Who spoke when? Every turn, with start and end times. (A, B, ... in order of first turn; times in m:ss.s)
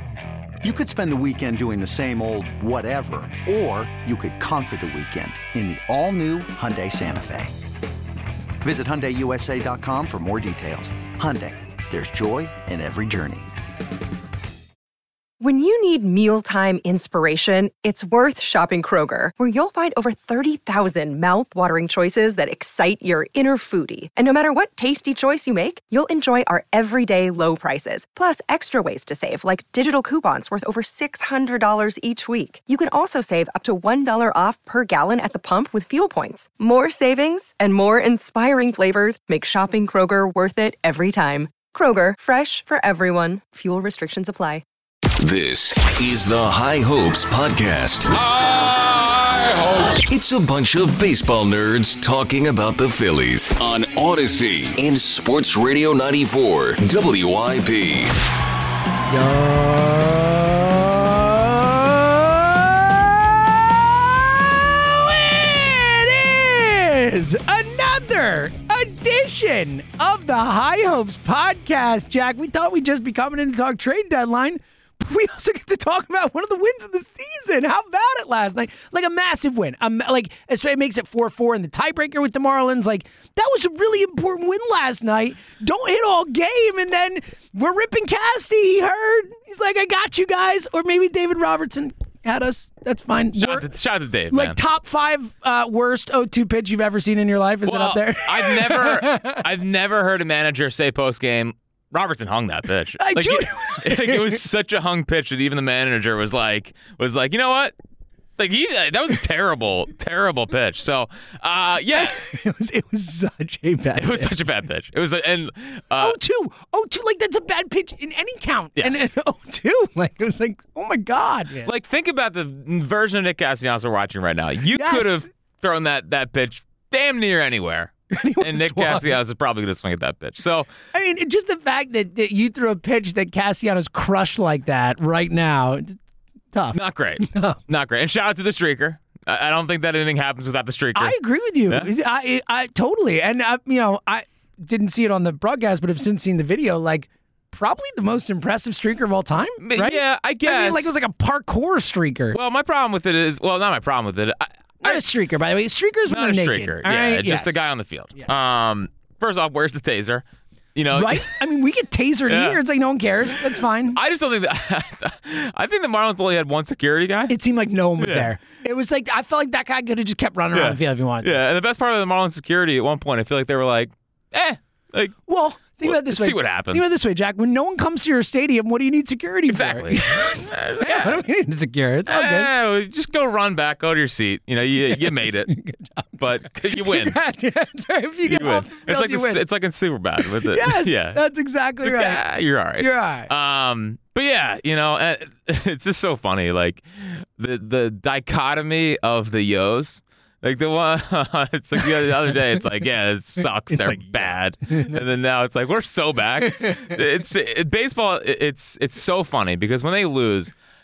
0:00.6-0:07.5 A
0:08.6-0:13.5 A
0:15.4-0:44.6 B
0:45.2-0:58.2 C
0:59.1-1:33.7 D
1:33.4-1:34.6 E
1:34.3-1:39.4 D
1:37.6-1:47.7 E
1:43.0-1:44.4 D
1:48.4-1:52.2 E
1:51.9-1:54.3 D
1:54.0-1:56.2 E
1:56.0-2:01.7 D
2:01.6-2:10.7 E
2:04.7-2:05.3 D
2:08.1-2:09.1 D
2:10.9-2:16.0 D
2:16.5-2:17.6 D
2:16.7-2:21.2 E
2:20.9-2:32.4 D
2:29.6-2:30.9 E
2:32.3-2:35.0 E
2:34.8-2:38.3 D
2:36.1-2:40.2 E
2:40.8-2:41.3 E
2:40.9-2:44.0 D
2:42.3-2:42.6 E
2:43.9-2:47.3 E
2:47.3-2:51.3 D
2:48.0-2:48.3 E
2:50.5-2:55.2 E
2:55.3-3:02.5 D
2:55.8-2:56.8 E
2:59.5-3:01.2 E
3:02.1-3:05.5 E
3:05.2-3:09.4 D
3:06.2-3:07.2 E
3:08.2-3:11.2 E
3:10.2-3:12.2 D
3:11.8-3:30.5 E
3:12.8-3:13.3 D
3:23.7-3:25.0 D
3:26.4-3:27.0 D